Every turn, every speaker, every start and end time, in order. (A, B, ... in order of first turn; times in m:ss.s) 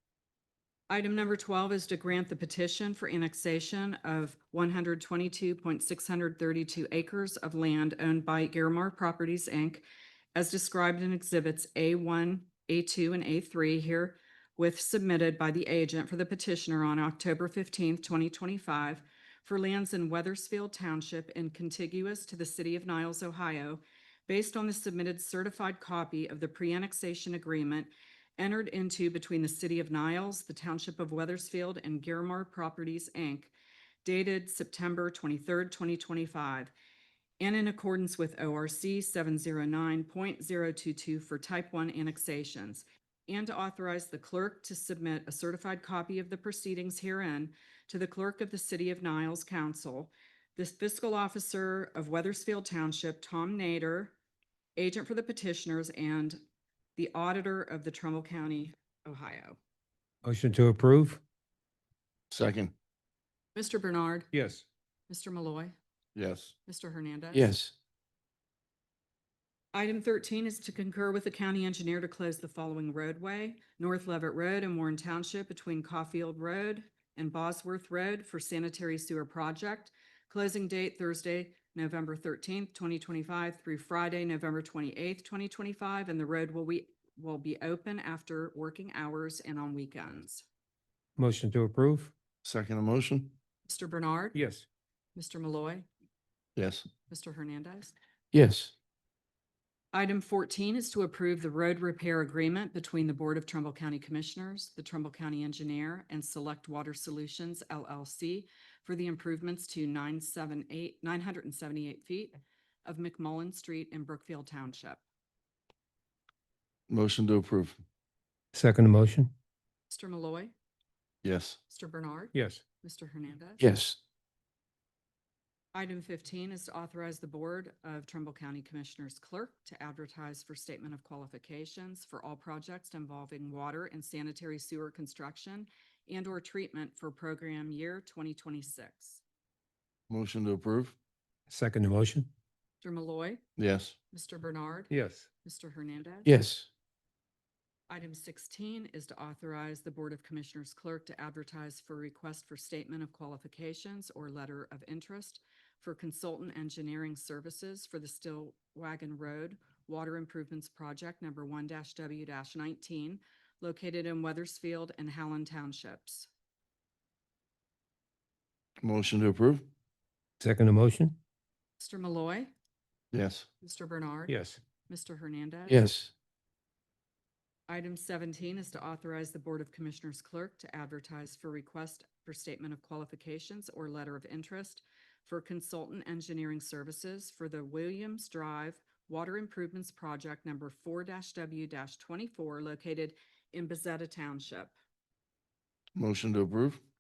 0:00.9-0:33.5 A
0:34.0-0:36.7 A
0:37.4-0:54.2 A
0:54.8-0:56.4 A
0:57.0-0:59.6 A
1:00.2-1:01.2 B
1:02.3-1:02.7 C
1:03.6-1:04.3 A
1:04.3-1:04.6 B
1:05.1-1:05.7 A
1:06.2-1:06.5 C
1:06.7-1:07.6 A
1:07.3-1:07.7 D
1:09.7-1:30.4 A
1:31.2-1:32.1 B
1:32.4-1:33.4 C
1:33.7-1:34.4 A
1:34.4-1:34.6 B
1:35.2-1:35.9 A
1:36.6-1:36.8 C
1:37.1-1:37.9 A
1:38.3-1:38.7 D
1:39.9-1:55.0 A
1:56.9-1:57.8 C
1:58.5-1:59.3 B
1:59.9-2:00.5 A
2:01.2-2:01.6 C
2:01.7-2:03.7 A
2:02.3-2:02.6 B
2:03.6-2:04.0 D
2:05.7-2:19.2 A
2:20.1-2:21.0 C
2:21.5-2:22.3 B
2:22.8-2:23.4 A
2:23.6-2:23.9 C
2:24.1-2:26.3 A
2:24.9-2:25.3 B
2:26.3-2:26.7 D
2:27.9-2:46.3 A
2:48.8-2:49.7 C
2:50.4-2:51.2 B
2:51.8-2:52.5 A
2:53.1-2:53.5 C
2:53.6-2:55.9 A
2:54.3-2:54.6 B
2:55.7-2:56.1 D
2:57.7-3:14.7 A
3:16.0-3:16.8 C